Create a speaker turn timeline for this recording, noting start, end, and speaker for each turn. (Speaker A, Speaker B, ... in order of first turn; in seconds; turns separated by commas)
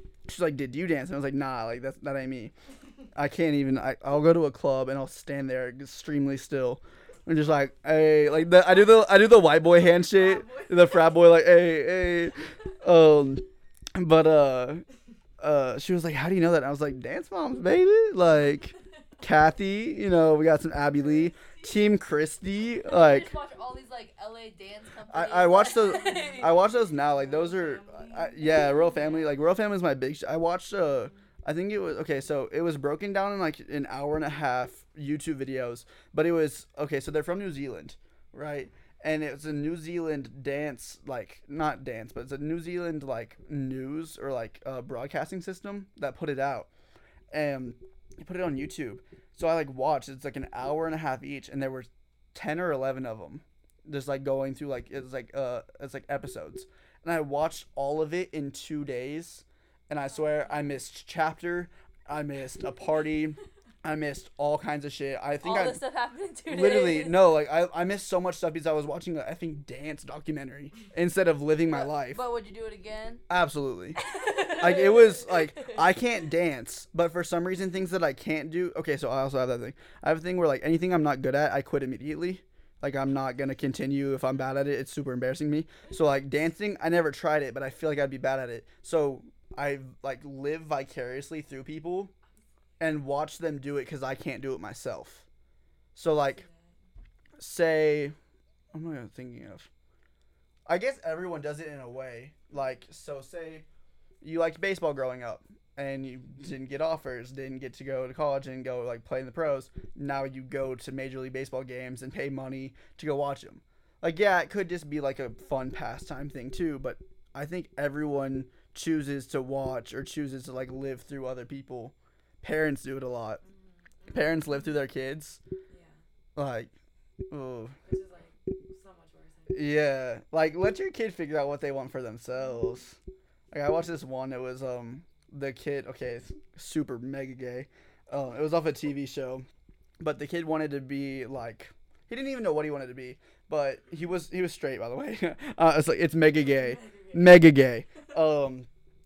Speaker A: 0.3-2.5, Speaker A: 3.1-14.8, Speaker B: 8.5-11.3, Speaker A: 15.4-23.3, Speaker B: 21.4-21.6, Speaker C: 22.8-26.5, Speaker A: 25.1-46.7, Speaker B: 25.8-29.0, Speaker C: 28.4-29.3, Speaker A: 47.3-65.8, Speaker B: 60.2-60.7, Speaker C: 65.4-67.2, Speaker A: 66.5-72.2, Speaker C: 71.7-73.2, Speaker A: 73.3-92.1, Speaker C: 74.0-75.8, Speaker A: 92.8-95.2, Speaker A: 95.9-96.4, Speaker B: 96.2-96.7, Speaker A: 97.4-98.1, Speaker A: 98.7-99.7, Speaker A: 100.7-103.7, Speaker A: 104.2-123.4, Speaker B: 123.4-124.6, Speaker A: 124.1-125.4, Speaker B: 125.7-126.0, Speaker A: 126.3-126.7, Speaker A: 127.3-127.8, Speaker B: 127.8-129.7, Speaker A: 129.5-133.0, Speaker A: 133.5-139.5, Speaker A: 140.0-148.7, Speaker B: 146.3-148.1